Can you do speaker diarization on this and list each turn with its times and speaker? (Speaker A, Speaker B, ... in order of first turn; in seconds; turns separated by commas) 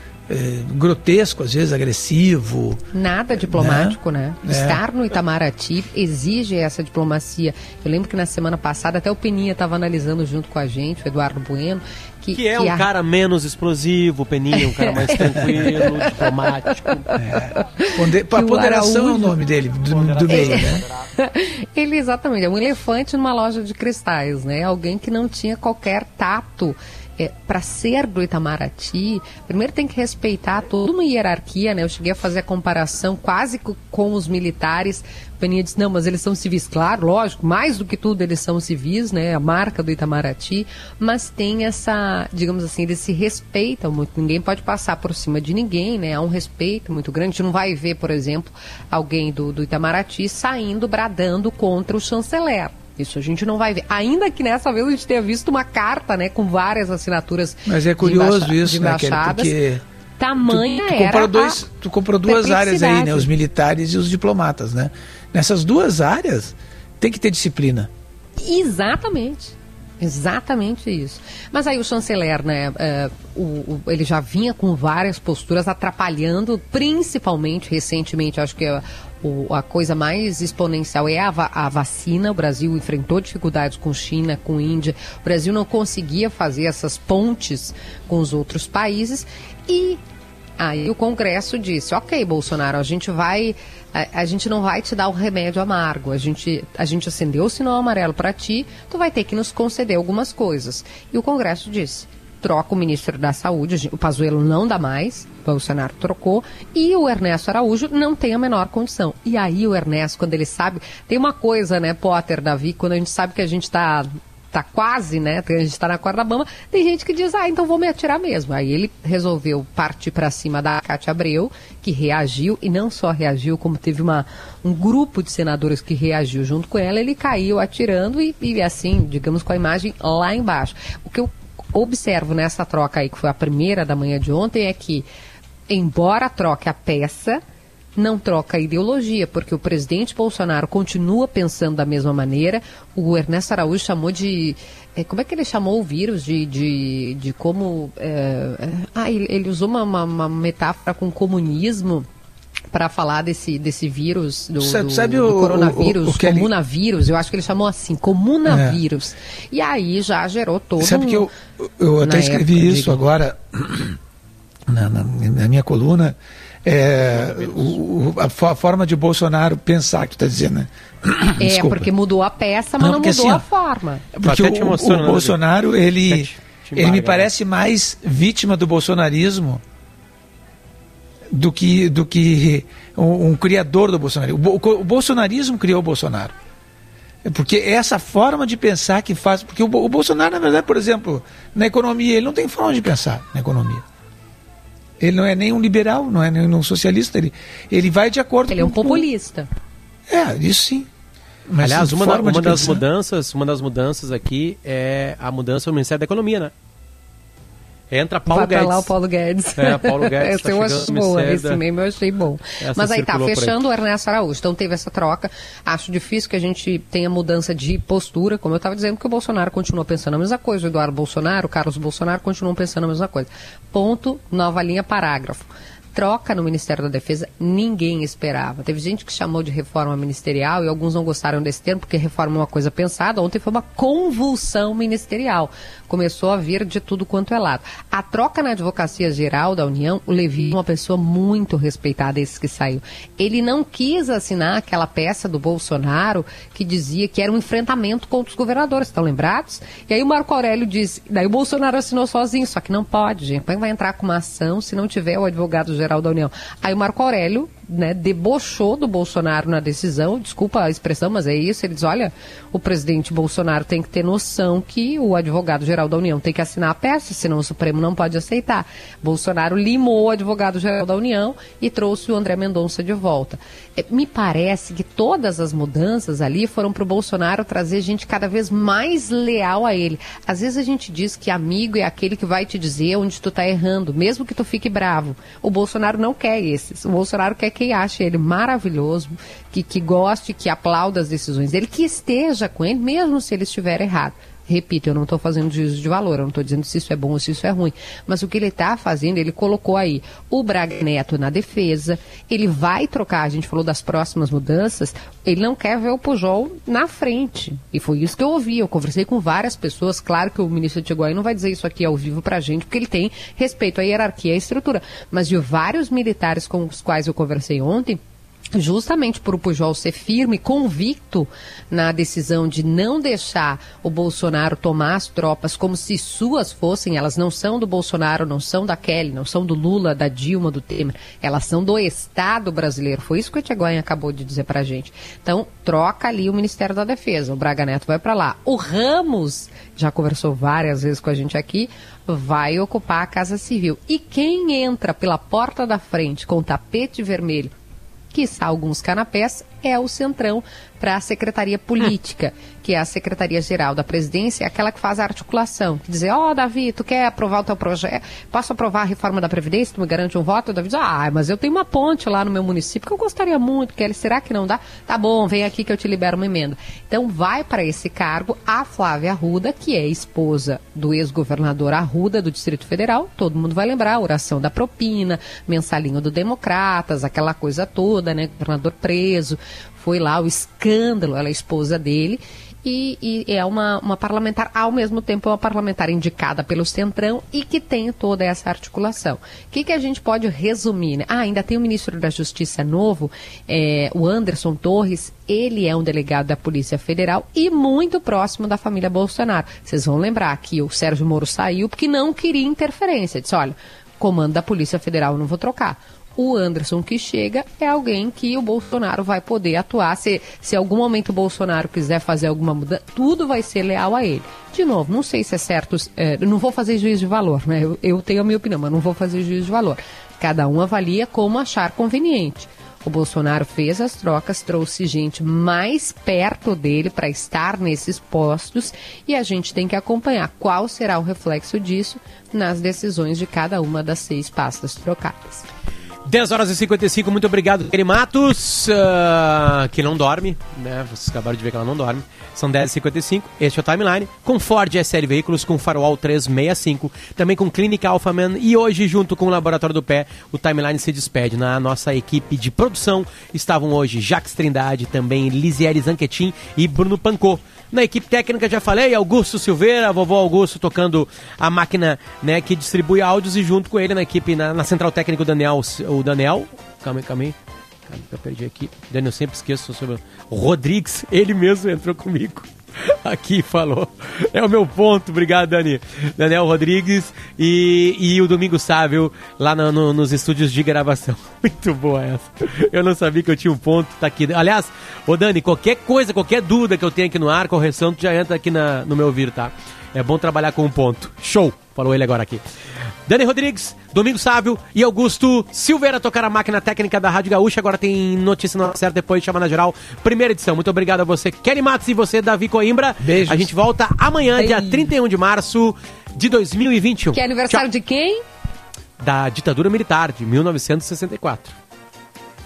Speaker A: 0.3-2.8, Speaker B: 2.9-12.8, Speaker A: 3.3-4.8, Speaker C: 12.3-17.1, Speaker B: 14.5-16.3, Speaker B: 17.1-19.4, Speaker A: 17.2-20.8, Speaker C: 19.9-21.0, Speaker B: 20.3-59.5, Speaker A: 57.6-59.8, Speaker B: 60.2-61.6, Speaker A: 60.4-67.9, Speaker B: 62.2-63.3, Speaker B: 68.4-90.0, Speaker B: 90.6-135.1, Speaker B: 135.7-137.4, Speaker B: 137.9-152.1, Speaker B: 152.7-161.3, Speaker A: 154.6-156.5, Speaker A: 158.4-158.8, Speaker A: 160.8-164.0, Speaker B: 162.0-163.0, Speaker A: 164.7-171.9, Speaker C: 167.0-167.8, Speaker B: 171.4-174.0, Speaker A: 172.8-173.4, Speaker A: 174.1-179.6, Speaker C: 174.2-175.4, Speaker C: 176.1-177.3, Speaker A: 181.3-186.3, Speaker A: 187.2-193.8, Speaker A: 195.0-199.1, Speaker B: 198.5-199.5, Speaker A: 200.1-200.9, Speaker A: 201.5-202.8, Speaker C: 201.6-206.5, Speaker C: 207.9-208.9, Speaker B: 208.3-318.0, Speaker C: 209.6-211.6, Speaker C: 212.6-213.6, Speaker B: 318.5-347.5, Speaker B: 348.1-435.4, Speaker C: 436.1-467.3, Speaker C: 467.9-492.4, Speaker C: 493.1-507.6, Speaker A: 503.0-503.5, Speaker B: 504.4-504.9, Speaker B: 507.1-508.2, Speaker C: 509.0-511.5